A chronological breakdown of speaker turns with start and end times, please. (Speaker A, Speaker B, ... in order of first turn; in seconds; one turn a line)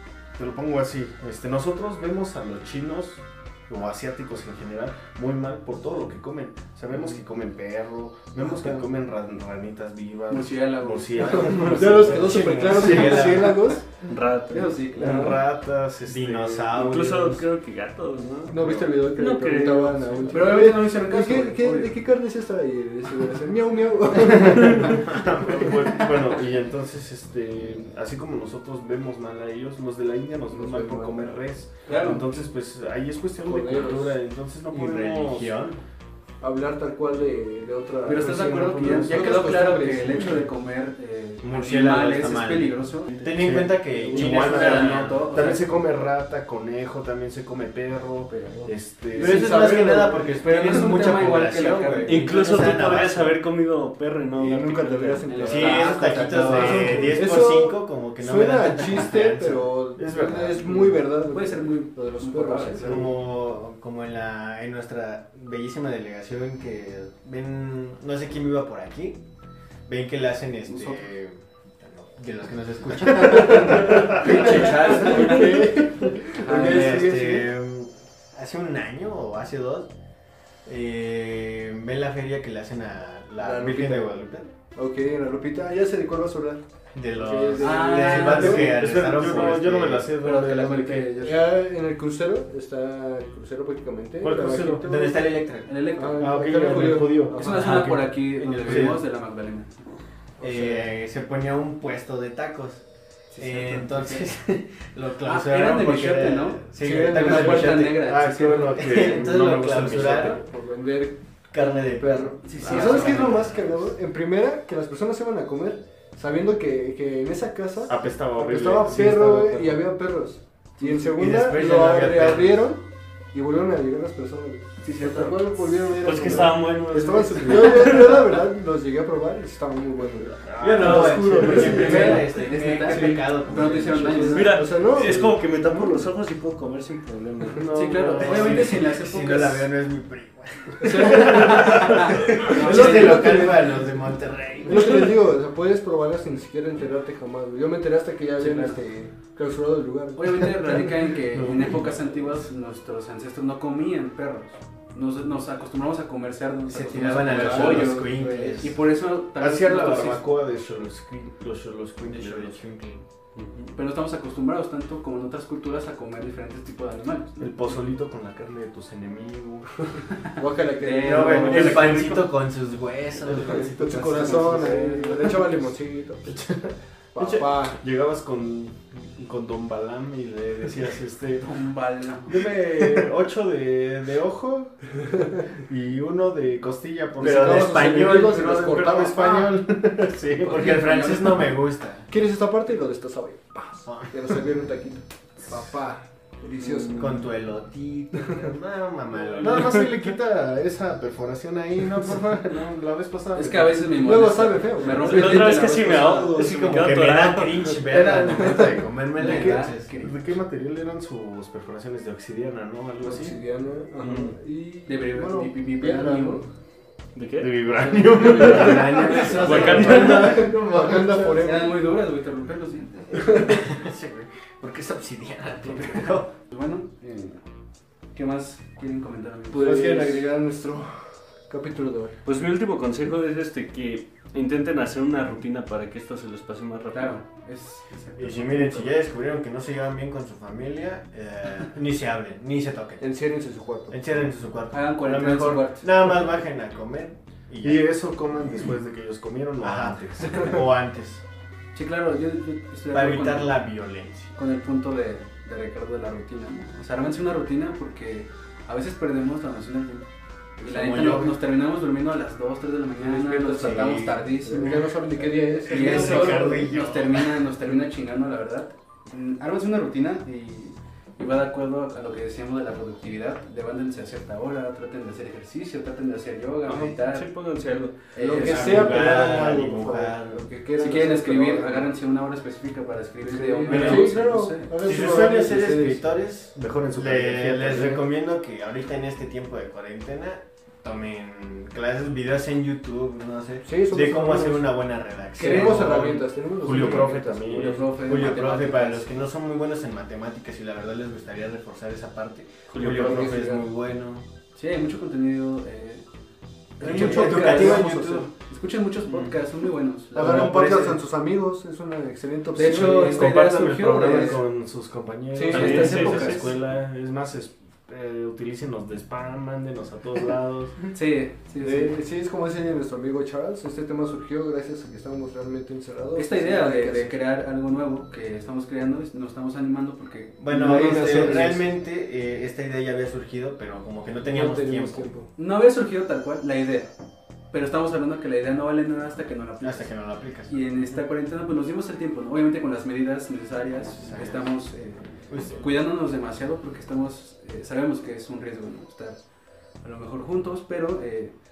Speaker A: 0.3-13.6
Speaker B: 8.4-8.9
Speaker C: 10.3-12.3
Speaker B: 11.4-13.9
Speaker D: 12.1-13.8
Speaker E: 14.1-14.8
Speaker C: 14.5-15.4
Speaker A: 15.0-17.3
Speaker B: 15.0-15.4
Speaker D: 16.1-17.4
Speaker E: 16.7-20.6
Speaker B: 18.5-25.7
Speaker C: 20.3-22.0
Speaker D: 24.5-25.8
Speaker A: 25.1-35.6
Speaker B: 30.5-31.4
Speaker C: 31.9-32.3
Speaker B: 33.4-34.2
Speaker D: 34.7-35.8
Speaker B: 36.4-40.4
Speaker C: 38.0-43.2
Speaker A: 38.8-39.4
Speaker D: 41.4-45.2
Speaker E: 43.1-43.5
Speaker A: 43.4-49.5
Speaker B: 43.9-45.0
Speaker C: 44.1-45.9
Speaker B: 48.4-51.0
Speaker D: 49.1-53.4
Speaker C: 49.2-52.6
Speaker E: 52.0-55.6
Speaker B: 54.4-63.1
Speaker C: 55.2-57.2
Speaker D: 55.4-59.7
Speaker A: 60.0-61.0
Speaker C: 60.8-63.1
Speaker D: 62.8-69.2
Speaker D: 69.9-79.9
Speaker C: 70.7-71.0
Speaker B: 74.1-77.5
Speaker C: 74.2-75.6
Speaker C: 76.3-77.1
Speaker D: 80.7-84.5
Speaker B: 83.4-84.1
Speaker B: 84.8-88.7
Speaker D: 86.9-90.2
Speaker C: 87.6-89.6
Speaker A: 88.1-91.3
Speaker C: 90.2-91.4
Speaker B: 91.2-95.2
Speaker A: 94.2-94.9
Speaker D: 94.8-95.8
Speaker C: 95.7-99.8
Speaker B: 96.0-97.8
Speaker A: 96.2-99.0
Speaker D: 98.6-99.0
Speaker B: 100.4-100.9
Speaker D: 100.4-102.8
Speaker C: 103.3-104.3
Speaker D: 103.4-110.4
Speaker C: 105.2-109.1
Speaker B: 106.8-107.8
Speaker A: 108.0-110.4
Speaker B: 110.2-111.2
Speaker D: 111.5-113.8
Speaker B: 112.0-135.4
Speaker C: 112.5-113.5
Speaker A: 117.9-119.9
Speaker D: 120.8-122.7
Speaker E: 125.0-128.4
Speaker A: 130.0-132.2
Speaker D: 130.6-134.5
Speaker E: 130.9-131.7
Speaker C: 131.5-134.6
Speaker E: 134.3-137.7
Speaker A: 137.6-138.8
Speaker C: 137.7-139.7
Speaker D: 138.1-145.2
Speaker B: 140.8-143.8
Speaker C: 140.9-143.5
Speaker B: 144.7-151.1
Speaker C: 148.4-148.8
Speaker C: 150.2-160.3
Speaker A: 151.3-152.3
Speaker D: 156.7-158.8
Speaker B: 157.2-158.6
Speaker A: 159.4-162.6
Speaker D: 162.0-163.0
Speaker E: 163.3-163.7
Speaker C: 163.7-167.7
Speaker A: 167.4-169.8
Speaker C: 170.4-171.8
Speaker B: 170.4-171.9
Speaker D: 170.9-175.1
Speaker E: 171.4-172.3
Speaker B: 173.4-176.4
Speaker C: 174.2-174.8
Speaker A: 174.6-174.9
Speaker A: 176.2-181.6
Speaker B: 177.1-177.8
Speaker C: 181.4-182.5
Speaker A: 182.3-184.8
Speaker A: 185.7-190.7
Speaker D: 187.2-188.4
Speaker B: 187.2-189.5
Speaker C: 190.4-191.6
Speaker D: 190.4-192.1
Speaker B: 192.1-197.2
Speaker D: 193.8-194.1
Speaker D: 196.9-199.9
Speaker A: 199.4-203.9
Speaker C: 203.3-206.4
Speaker B: 203.9-205.5
Speaker E: 204.9-207.8
Speaker D: 206.3-209.9
Speaker B: 208.0-208.3
Speaker C: 208.1-210.2
Speaker A: 209.2-213.4
Speaker B: 213.0-216.5
Speaker E: 214.0-214.3
Speaker C: 214.9-216.4
Speaker E: 217.2-217.5
Speaker A: 217.4-221.4
Speaker B: 217.7-221.8
Speaker C: 218.2-220.1
Speaker D: 218.2-220.5
Speaker E: 219.4-220.5
Speaker C: 221.4-223.3
Speaker D: 223.3-226.3
Speaker C: 226.3-227.4
Speaker C: 228.1-230.2
Speaker B: 229.5-232.2
Speaker E: 232.2-237.2
Speaker C: 236.9-238.9
Speaker D: 238.2-243.0
Speaker B: 243.0-243.9
Speaker D: 243.9-247.8
Speaker C: 244.7-245.9
Speaker A: 247.6-250.6
Speaker D: 249.6-251.2
Speaker C: 251.7-253.6
Speaker D: 252.9-254.3
Speaker C: 254.3-260.1
Speaker C: 260.6-277.3
Speaker D: 260.6-261.4
Speaker B: 263.0-263.9
Speaker D: 263.5-264.8
Speaker B: 264.4-266.7
Speaker D: 265.6-267.4
Speaker E: 276.7-278.1
Speaker C: 278.1-279.0
Speaker B: 278.2-281.9
Speaker D: 278.2-280.4
Speaker C: 280.8-284.7
Speaker B: 283.3-286.1
Speaker D: 283.7-284.1
Speaker D: 284.8-297.0
Speaker A: 284.9-285.3
Speaker A: 286.6-288.0
Speaker B: 287.7-288.0
Speaker B: 293.6-294.7
Speaker B: 295.4-297.8
Speaker C: 295.4-295.7
Speaker A: 295.5-297.9
Speaker C: 297.4-299.1
Speaker D: 297.9-304.2
Speaker E: 302.7-303.3
Speaker B: 302.8-303.7
Speaker C: 304.6-306.1
Speaker C: 306.8-311.0
Speaker D: 306.8-308.3
Speaker B: 306.8-307.8
Speaker E: 309.1-309.4
Speaker B: 310.1-313.4
Speaker D: 310.2-310.9
Speaker C: 312.5-314.4
Speaker A: 312.7-320.8
Speaker B: 313.9-314.4
Speaker C: 315.3-316.5
Speaker E: 315.5-316.4
Speaker C: 320.9-322.0
Speaker B: 321.6-327.2
Speaker C: 326.1-331.5
Speaker D: 330.4-335.1
Speaker B: 330.5-331.6
Speaker B: 334.3-335.3
Speaker C: 335.4-336.9
Speaker C: 337.5-339.9
Speaker D: 339.6-340.5
Speaker C: 340.5-349.2
Speaker D: 343.9-344.5
Speaker D: 345.3-345.7
Speaker C: 349.8-351.4